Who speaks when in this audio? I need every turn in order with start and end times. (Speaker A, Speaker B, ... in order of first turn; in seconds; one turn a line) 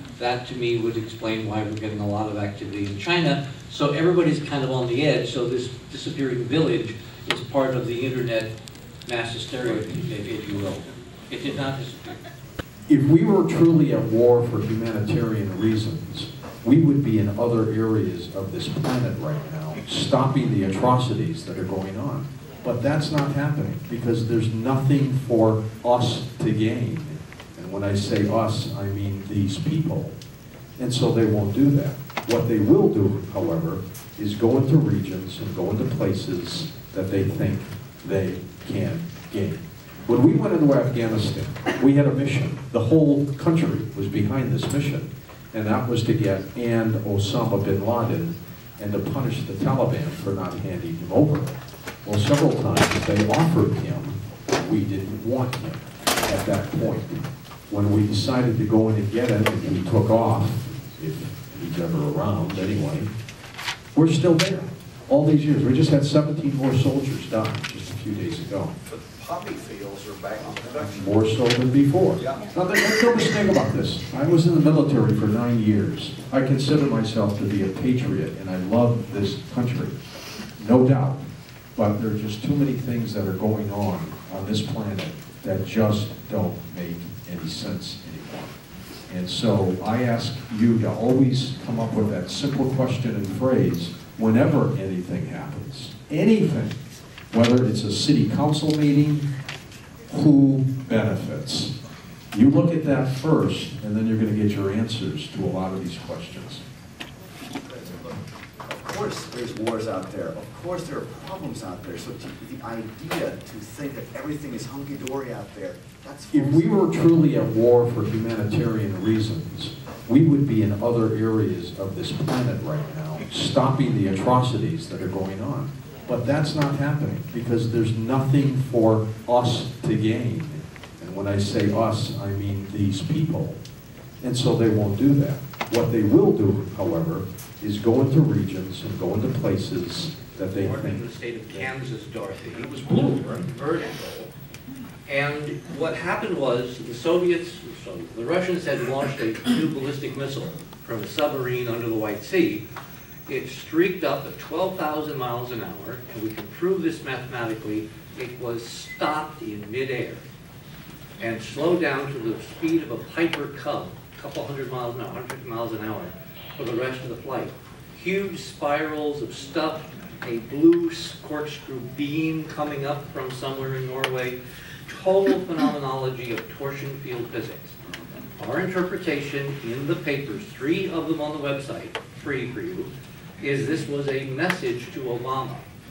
Speaker A: 0.2-8.5
Speaker A: 9.1-12.2
Speaker B: 9.6-10.8
Speaker B: 12.9-30.1
Speaker B: 30.8-63.1
Speaker B: 64.0-68.8
Speaker C: 68.8-71.1
Speaker B: 70.8-80.0
Speaker C: 72.1-72.5
Speaker B: 80.6-81.2
Speaker B: 81.8-88.6
Speaker B: 89.1-96.8
Speaker B: 97.3-99.3
Speaker B: 100.1-101.7
Speaker B: 102.3-106.6
Speaker D: 107.6-116.9
Speaker B: 116.3-133.6
Speaker B: 134.2-141.7
Speaker A: 140.6-144.3
Speaker B: 142.5-143.5
Speaker A: 145.1-152.6
Speaker A: 153.3-160.2
Speaker A: 161.2-177.8
Speaker A: 178.4-185.7